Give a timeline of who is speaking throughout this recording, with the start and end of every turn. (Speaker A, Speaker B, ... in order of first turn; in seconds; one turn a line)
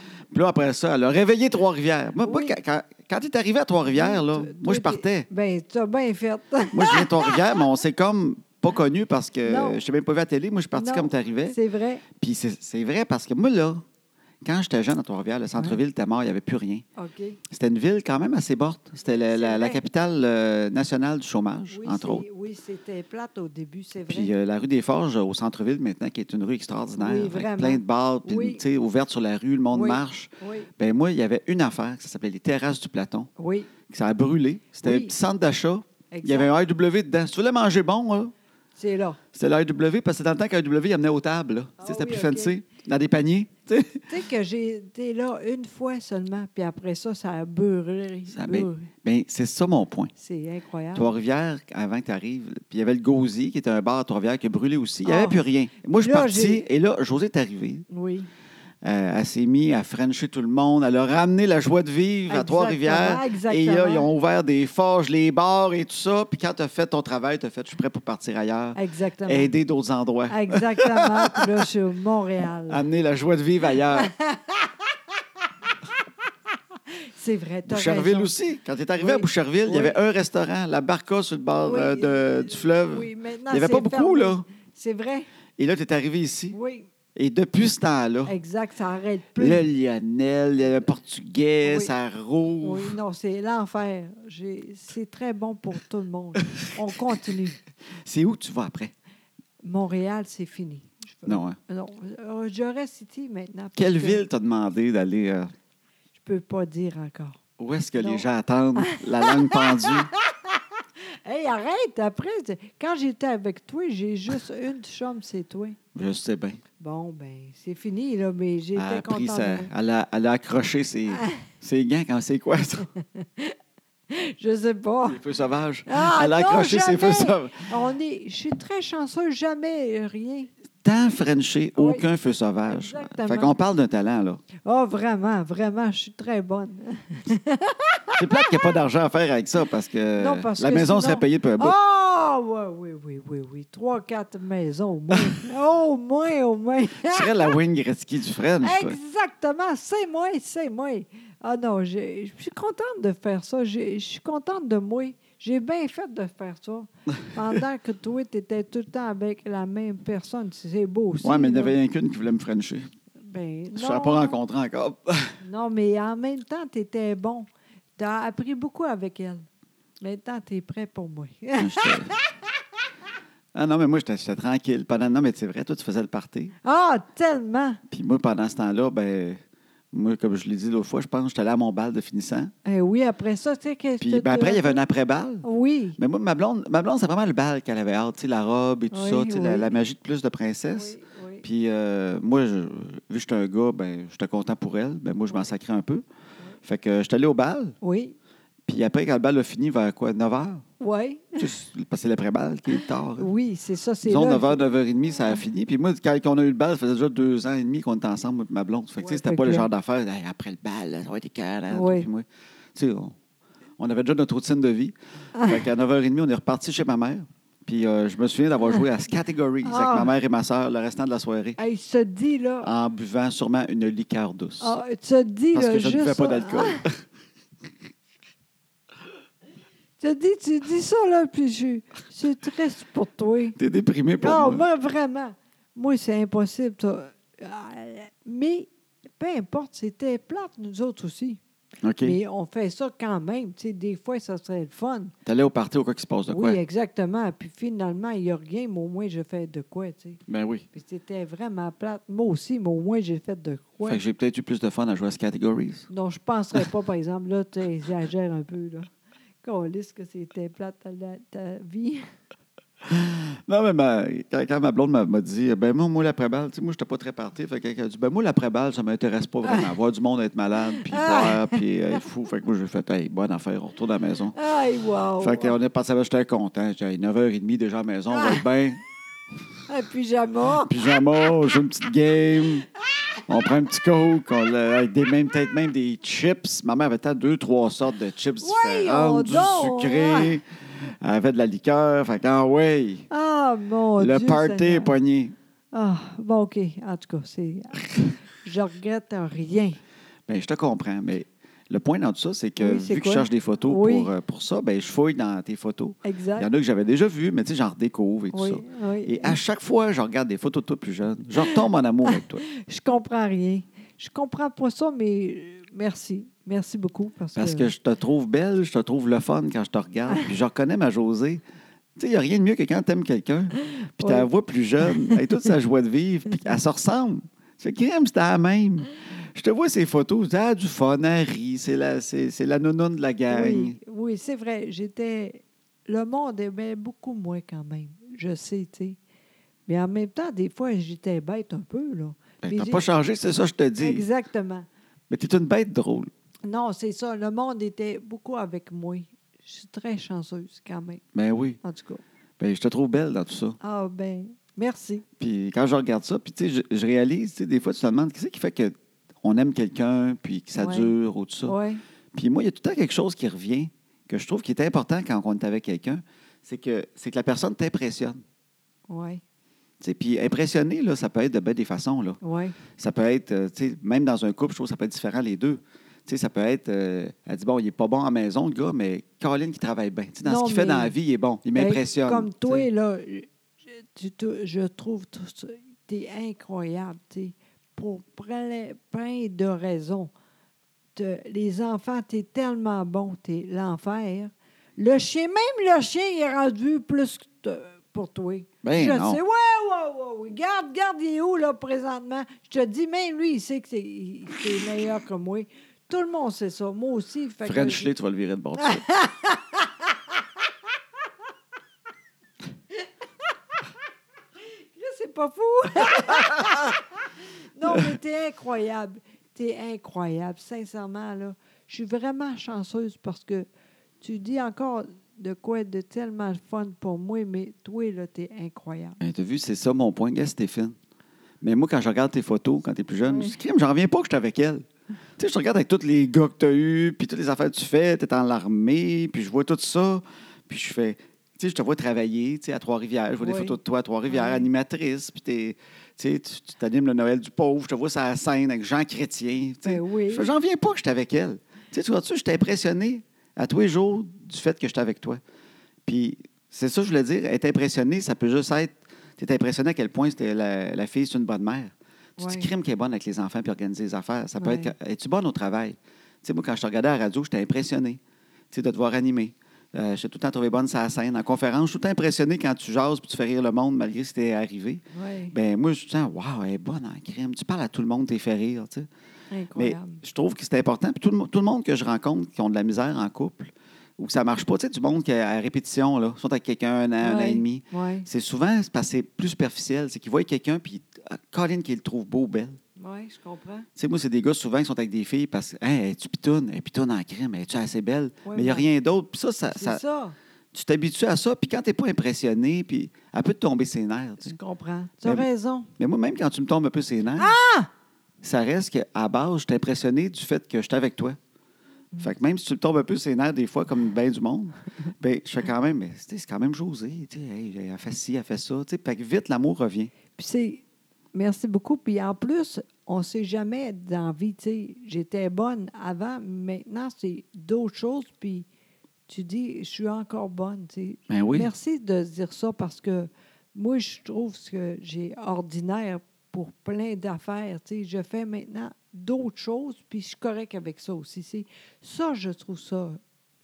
Speaker A: 0.3-5.3
Speaker B: 2.2-2.5
Speaker B: 3.9-7.4
Speaker A: 6.7-11.6
Speaker B: 9.4-9.8
Speaker B: 10.8-12.0
Speaker A: 12.1-13.8
Speaker A: 14.4-16.8
Speaker B: 16.9-17.4
Speaker A: 17.5-22.2
Speaker B: 19.3-19.8
Speaker B: 21.7-24.3
Speaker A: 24.1-33.3
Speaker B: 27.0-28.6
Speaker B: 29.7-30.7
Speaker B: 33.4-33.7
Speaker A: 33.9-38.3
Speaker B: 34.8-35.1
Speaker B: 36.1-36.5
Speaker B: 38.8-39.2
Speaker A: 39.3-44.1
Speaker B: 41.8-42.6
Speaker B: 44.1-48.9
Speaker A: 48.3-50.1
Speaker B: 50.1-51.1
Speaker A: 50.9-57.9
Speaker B: 55.0-55.4
Speaker B: 56.0-56.6
Speaker B: 57.9-58.3
Speaker A: 58.8-71.7
Speaker B: 62.3-64.1
Speaker B: 68.7-69.5
Speaker B: 70.3-72.8
Speaker A: 72.7-74.1
Speaker B: 74.0-74.8
Speaker B: 77.2-78.3
Speaker A: 77.7-84.4
Speaker B: 79.0-80.0
Speaker B: 81.6-85.3
Speaker A: 85.6-86.5
Speaker B: 86.5-86.9
Speaker A: 87.1-88.3
Speaker B: 88.2-89.6
Speaker A: 89.4-93.0
Speaker B: 91.6-91.9
Speaker B: 92.6-97.6
Speaker A: 98.0-98.9
Speaker B: 99.6-104.2
Speaker A: 101.2-101.6
Speaker A: 103.8-105.5
Speaker B: 106.2-107.4
Speaker A: 107.6-110.1
Speaker B: 108.0-108.2
Speaker B: 108.8-115.8
Speaker A: 115.9-116.6
Speaker B: 116.8-119.7
Speaker A: 118.7-122.9
Speaker B: 121.1-121.4
Speaker B: 123.0-123.5
Speaker B: 124.1-125.2
Speaker A: 125.0-127.7
Speaker B: 125.9-130.5
Speaker A: 130.8-134.4
Speaker B: 131.8-132.0
Speaker B: 132.7-133.5
Speaker B: 134.6-138.5
Speaker A: 138.2-141.8
Speaker B: 140.2-147.5
Speaker A: 147.0-149.0
Speaker B: 148.6-161.8
Speaker A: 161.2-162.9
Speaker B: 163.2-164.4
Speaker A: 163.7-165.3
Speaker B: 165.4-169.4
Speaker B: 170.0-172.3
Speaker A: 171.6-172.1
Speaker A: 173.5-176.5
Speaker B: 176.6-177.8
Speaker A: 177.9-179.4
Speaker A: 179.9-182.5
Speaker B: 182.6-184.8
Speaker A: 184.0-185.4
Speaker B: 185.4-186.0
Speaker A: 186.0-196.0
Speaker B: 188.9-189.7
Speaker B: 190.7-191.4
Speaker A: 196.6-197.8
Speaker B: 197.8-198.2
Speaker A: 198.7-200.6
Speaker B: 200.8-201.5
Speaker A: 201.4-203.3
Speaker B: 203.2-204.6
Speaker A: 204.0-213.1
Speaker B: 209.0-209.7
Speaker B: 211.7-212.1
Speaker A: 213.8-221.6
Speaker B: 219.6-220.1
Speaker B: 221.6-222.7
Speaker A: 222.6-224.8
Speaker B: 224.6-226.8
Speaker A: 225.5-227.0
Speaker B: 230.0-233.6
Speaker A: 233.6-234.7
Speaker B: 234.2-241.4
Speaker A: 241.8-242.2
Speaker B: 242.0-245.1
Speaker A: 245.2-246.6
Speaker B: 246.3-250.2
Speaker A: 250.3-250.7
Speaker B: 250.7-254.0
Speaker A: 253.8-255.9
Speaker B: 255.9-258.9
Speaker B: 259.4-262.0
Speaker A: 262.8-274.4
Speaker B: 269.4-269.7
Speaker B: 270.7-272.0
Speaker B: 274.3-275.6
Speaker A: 275.2-278.8
Speaker B: 278.1-278.4
Speaker B: 279.7-280.9
Speaker A: 280.6-282.7
Speaker A: 283.3-293.1
Speaker B: 288.4-290.4
Speaker B: 293.1-294.9
Speaker A: 294.0-295.4
Speaker B: 295.7-299.8
Speaker A: 300.3-312.4
Speaker B: 302.6-304.1
Speaker B: 306.0-306.5
Speaker B: 308.3-309.4
Speaker B: 312.1-317.7
Speaker A: 317.4-321.4
Speaker A: 321.9-333.8
Speaker B: 324.0-324.3
Speaker B: 324.9-325.2
Speaker B: 333.3-339.0
Speaker B: 339.7-342.9
Speaker A: 342.4-344.1
Speaker B: 343.8-344.7
Speaker A: 345.1-346.1
Speaker B: 346.4-351.0
Speaker A: 351.1-351.6
Speaker B: 351.6-352.0
Speaker A: 352.4-353.6
Speaker B: 353.6-355.0
Speaker A: 355.2-361.6
Speaker B: 360.6-360.9
Speaker B: 361.4-361.8
Speaker A: 362.1-368.2
Speaker B: 368.9-369.2
Speaker A: 369.8-372.2
Speaker B: 372.2-372.6
Speaker A: 372.8-382.7
Speaker B: 380.2-380.9
Speaker B: 381.5-390.1
Speaker B: 390.9-407.9
Speaker A: 398.6-399.2
Speaker A: 407.4-408.8
Speaker B: 408.6-409.9
Speaker B: 414.5-416.8
Speaker B: 417.6-423.5
Speaker B: 424.0-429.0
Speaker A: 429.0-430.8
Speaker A: 431.4-434.6
Speaker B: 433.0-433.4
Speaker A: 435.2-455.2
Speaker B: 443.2-444.5
Speaker B: 449.6-450.3
Speaker A: 455.8-468.0
Speaker B: 462.2-462.5
Speaker B: 464.4-464.7
Speaker A: 468.5-478.9
Speaker B: 474.9-475.3
Speaker B: 479.3-480.0
Speaker A: 479.5-492.6
Speaker B: 487.0-488.1
Speaker B: 492.8-493.7
Speaker A: 493.8-499.8
Speaker B: 498.2-498.7
Speaker B: 499.5-500.1
Speaker A: 500.5-504.4
Speaker B: 504.2-505.7
Speaker A: 505.8-507.4
Speaker B: 507.2-507.7
Speaker A: 508.2-511.2
Speaker A: 512.0-519.9
Speaker B: 520.1-520.6
Speaker B: 521.1-528.5
Speaker B: 529.1-543.0
Speaker A: 531.1-531.5